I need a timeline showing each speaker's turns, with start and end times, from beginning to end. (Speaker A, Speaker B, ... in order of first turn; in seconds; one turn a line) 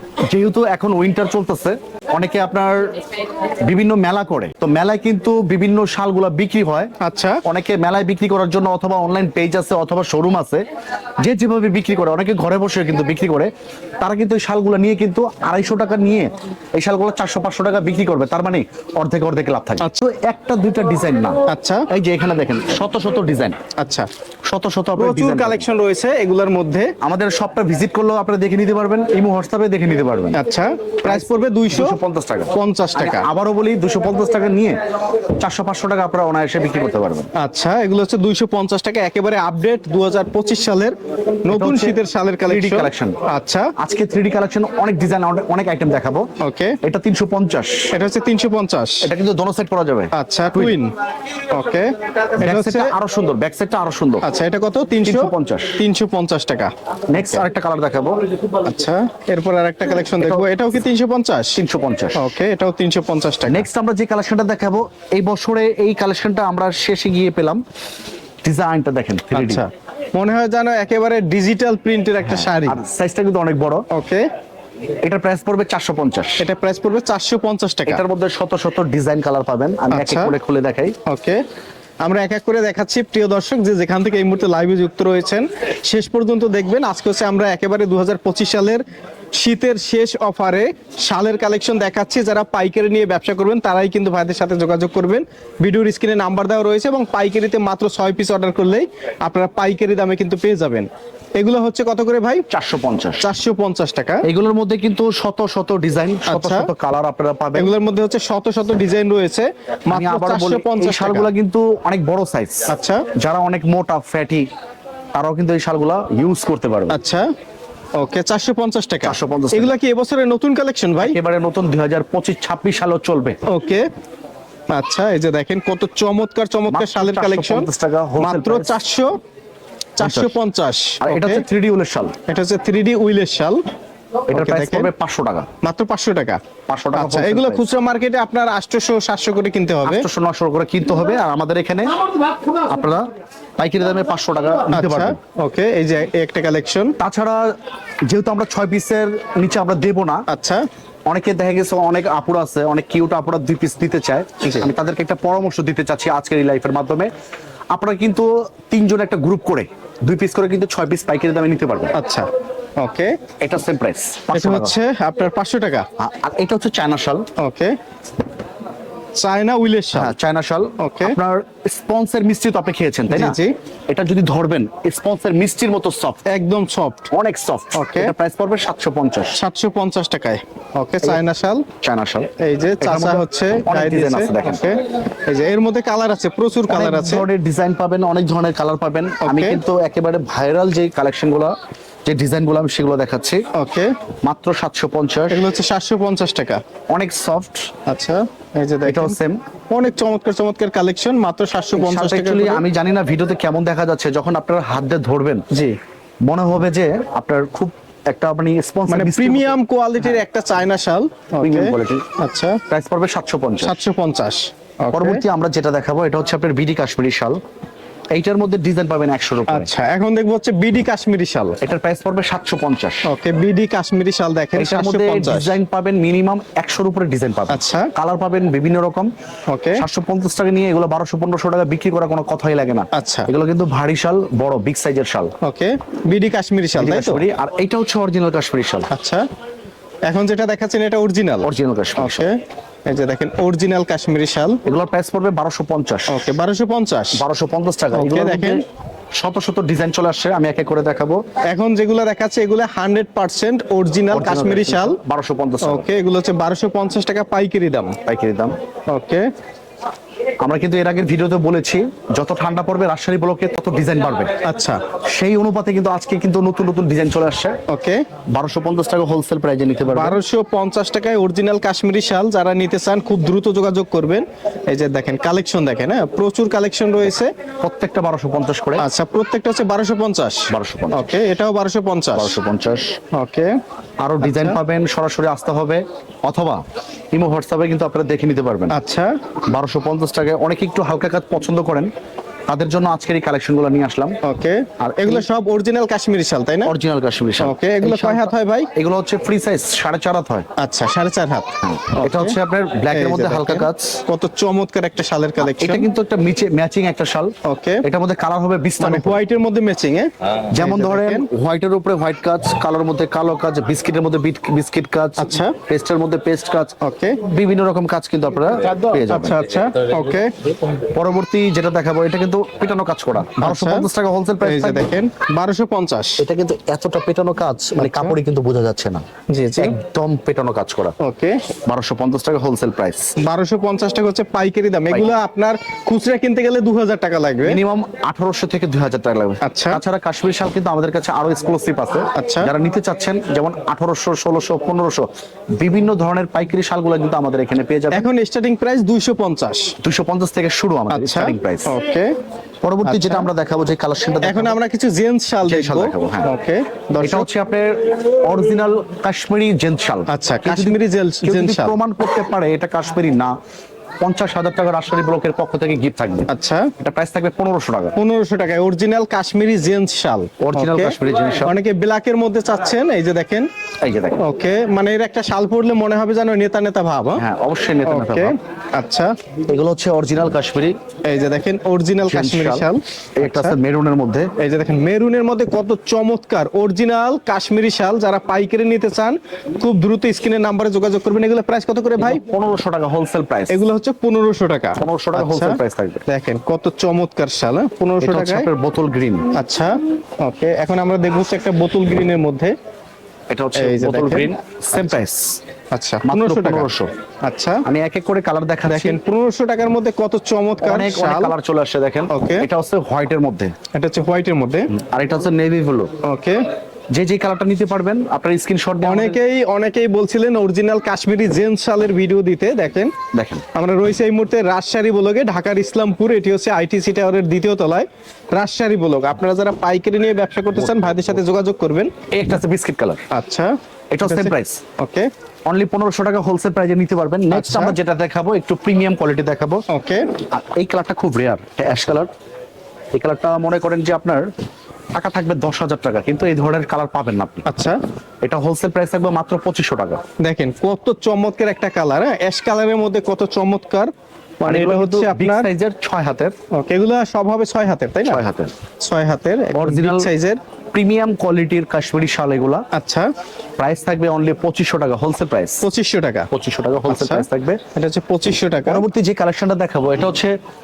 Speaker A: 0.2-2.9
Speaker A: 3.6-6.9
Speaker B: 7.0-7.4
Speaker A: 7.4-10.6
Speaker A: 11.2-21.4
Speaker B: 21.5-21.8
Speaker A: 21.9-23.6
Speaker B: 23.8-24.1
Speaker A: 24.4-25.7
Speaker B: 24.9-26.9
Speaker A: 27.0-30.4
Speaker B: 30.3-32.0
Speaker A: 31.0-34.8
Speaker B: 32.5-33.3
Speaker A: 35.4-37.3
Speaker B: 37.4-43.7
Speaker A: 41.5-43.2
Speaker A: 43.8-46.2
Speaker B: 46.4-46.8
Speaker A: 46.8-47.9
Speaker B: 47.9-49.1
Speaker A: 49.0-50.8
Speaker B: 50.1-50.9
Speaker B: 51.5-52.9
Speaker A: 52.4-54.2
Speaker B: 54.2-57.3
Speaker A: 55.0-55.8
Speaker A: 57.1-58.2
Speaker B: 58.6-61.6
Speaker A: 60.2-60.4
Speaker A: 61.5-62.3
Speaker B: 62.1-63.6
Speaker A: 63.5-67.6
Speaker A: 68.4-69.6
Speaker B: 69.3-72.8
Speaker A: 72.2-73.8
Speaker B: 73.9-74.2
Speaker A: 75.0-76.4
Speaker B: 76.4-78.0
Speaker A: 77.9-80.9
Speaker B: 79.9-80.3
Speaker B: 81.0-81.4
Speaker B: 82.0-88.8
Speaker B: 89.4-102.5
Speaker A: 102.5-103.2
Speaker B: 103.2-104.2
Speaker A: 104.2-107.7
Speaker B: 106.3-106.7
Speaker B: 107.5-111.3
Speaker A: 109.9-114.5
Speaker B: 112.7-113.0
Speaker A: 115.1-117.0
Speaker B: 116.9-117.3
Speaker B: 118.0-121.2
Speaker A: 119.0-119.7
Speaker A: 121.0-123.4
Speaker B: 123.5-123.9
Speaker B: 124.7-129.1
Speaker A: 126.7-128.7
Speaker B: 130.0-131.4
Speaker A: 130.0-130.3
Speaker A: 131.0-132.1
Speaker B: 132.3-133.6
Speaker A: 134.3-135.5
Speaker B: 134.3-134.9
Speaker B: 135.6-136.4
Speaker A: 136.7-137.6
Speaker B: 136.9-140.1
Speaker A: 139.8-142.0
Speaker A: 142.7-143.0
Speaker A: 143.6-145.2
Speaker B: 144.7-146.9
Speaker A: 147.0-147.5
Speaker A: 148.1-150.2
Speaker B: 150.3-150.6
Speaker A: 151.1-157.1
Speaker B: 154.4-154.7
Speaker A: 157.7-161.9
Speaker B: 161.9-162.3
Speaker B: 162.8-163.1
Speaker A: 163.4-164.7
Speaker B: 164.3-165.8
Speaker A: 166.0-167.3
Speaker B: 167.4-167.7
Speaker B: 169.2-170.1
Speaker A: 169.9-173.4
Speaker B: 170.8-171.2
Speaker B: 173.1-173.5
Speaker A: 173.9-176.2
Speaker B: 176.2-177.1
Speaker A: 177.1-179.3
Speaker B: 177.7-178.1
Speaker B: 179.3-181.7
Speaker A: 181.8-182.3
Speaker B: 182.4-187.2
Speaker A: 182.8-184.6
Speaker A: 186.7-191.5
Speaker B: 189.2-189.6
Speaker A: 192.1-193.4
Speaker B: 193.5-193.9
Speaker A: 194.2-195.4
Speaker B: 195.3-196.6
Speaker A: 196.9-197.7
Speaker B: 197.9-199.2
Speaker A: 198.8-199.4
Speaker B: 199.7-202.6
Speaker A: 201.7-205.4
Speaker A: 206.2-209.5
Speaker B: 208.9-212.6
Speaker A: 211.4-212.0
Speaker A: 212.7-213.8
Speaker B: 213.6-215.2
Speaker A: 214.9-217.4
Speaker A: 218.1-219.7
Speaker B: 219.5-221.6
Speaker A: 221.6-223.0
Speaker B: 223.0-225.5
Speaker A: 224.6-229.1
Speaker B: 227.5-227.9
Speaker B: 229.5-229.8
Speaker A: 229.7-235.3
Speaker B: 232.9-233.3
Speaker B: 235.4-237.2
Speaker A: 236.8-238.9
Speaker B: 238.9-239.2
Speaker B: 240.1-244.6
Speaker A: 241.4-242.3
Speaker A: 244.6-246.3
Speaker B: 246.1-247.2
Speaker A: 247.1-248.6
Speaker B: 247.9-248.6
Speaker A: 249.1-251.2
Speaker B: 251.5-255.0
Speaker A: 254.1-255.9
Speaker B: 255.6-257.9
Speaker A: 258.1-258.5
Speaker B: 258.9-259.2
Speaker A: 260.4-264.3
Speaker B: 264.4-264.8
Speaker A: 265.1-267.6
Speaker B: 267.7-268.0
Speaker A: 268.3-270.2
Speaker B: 269.9-277.3
Speaker A: 277.6-278.8
Speaker B: 278.8-282.3
Speaker A: 280.5-281.1
Speaker A: 282.1-283.0
Speaker B: 283.1-283.5
Speaker A: 284.0-288.7
Speaker B: 284.2-284.6
Speaker B: 288.7-289.1
Speaker A: 289.5-291.9
Speaker A: 292.5-294.2
Speaker B: 294.2-296.7
Speaker A: 294.8-295.2
Speaker A: 296.6-300.5
Speaker B: 297.4-298.7
Speaker B: 300.6-302.4
Speaker A: 301.6-304.0
Speaker B: 302.9-305.9
Speaker A: 305.4-309.2
Speaker B: 307.4-307.8
Speaker B: 308.8-311.3
Speaker A: 310.5-319.4
Speaker B: 315.2-315.6
Speaker B: 316.8-317.2
Speaker B: 319.1-320.3
Speaker A: 320.8-324.9
Speaker B: 323.4-323.9
Speaker B: 324.4-326.2
Speaker A: 326.2-329.1
Speaker B: 327.8-328.1
Speaker B: 329.3-329.8
Speaker A: 329.6-330.9
Speaker B: 331.0-331.4
Speaker A: 331.6-333.1
Speaker B: 333.2-337.6
Speaker A: 337.4-348.1
Speaker B: 339.4-339.8
Speaker B: 342.1-342.5
Speaker B: 347.9-349.7
Speaker A: 349.8-351.7
Speaker B: 350.9-352.1
Speaker A: 352.6-354.6
Speaker B: 352.8-353.3
Speaker B: 354.2-357.3
Speaker A: 355.4-356.3
Speaker A: 357.0-363.3
Speaker B: 360.1-361.8
Speaker A: 364.0-366.3
Speaker B: 366.3-366.7
Speaker A: 366.8-367.9
Speaker B: 367.9-373.5
Speaker A: 370.4-371.5
Speaker A: 373.8-374.2
Speaker B: 374.2-377.2
Speaker A: 377.2-378.3
Speaker B: 377.8-379.1
Speaker A: 379.5-380.7
Speaker B: 381.1-383.6
Speaker A: 382.1-384.3
Speaker B: 384.4-392.2
Speaker A: 392.0-393.6
Speaker B: 393.5-398.5
Speaker A: 394.8-396.0
Speaker A: 398.0-399.3
Speaker B: 399.4-402.5
Speaker A: 403.3-405.4
Speaker B: 403.5-404.9
Speaker B: 405.7-406.7
Speaker A: 406.0-406.9
Speaker B: 407.2-407.6
Speaker A: 407.6-409.0
Speaker B: 408.6-411.3
Speaker A: 410.6-413.5
Speaker B: 412.1-412.5
Speaker B: 413.7-414.7
Speaker A: 414.7-415.9
Speaker B: 416.0-416.4
Speaker A: 416.9-419.2
Speaker B: 418.8-422.9
Speaker A: 423.1-423.4
Speaker B: 423.5-431.9
Speaker A: 430.6-431.1
Speaker A: 432.1-433.0
Speaker B: 433.1-435.1
Speaker A: 433.9-434.6
Speaker A: 435.4-439.6
Speaker B: 437.3-437.8
Speaker B: 439.7-440.1
Speaker A: 440.3-442.1
Speaker A: 442.9-444.3
Speaker A: 444.9-447.4
Speaker B: 447.4-447.8
Speaker A: 448.2-450.0
Speaker B: 450.2-453.9
Speaker B: 454.4-455.5
Speaker A: 454.4-456.3
Speaker B: 456.5-458.2
Speaker A: 458.0-458.5
Speaker B: 458.8-460.4
Speaker A: 459.5-460.1
Speaker A: 460.7-462.6
Speaker B: 462.7-463.1
Speaker A: 463.6-465.6
Speaker B: 465.6-466.3
Speaker A: 466.3-467.6
Speaker B: 466.9-468.8
Speaker A: 468.6-470.3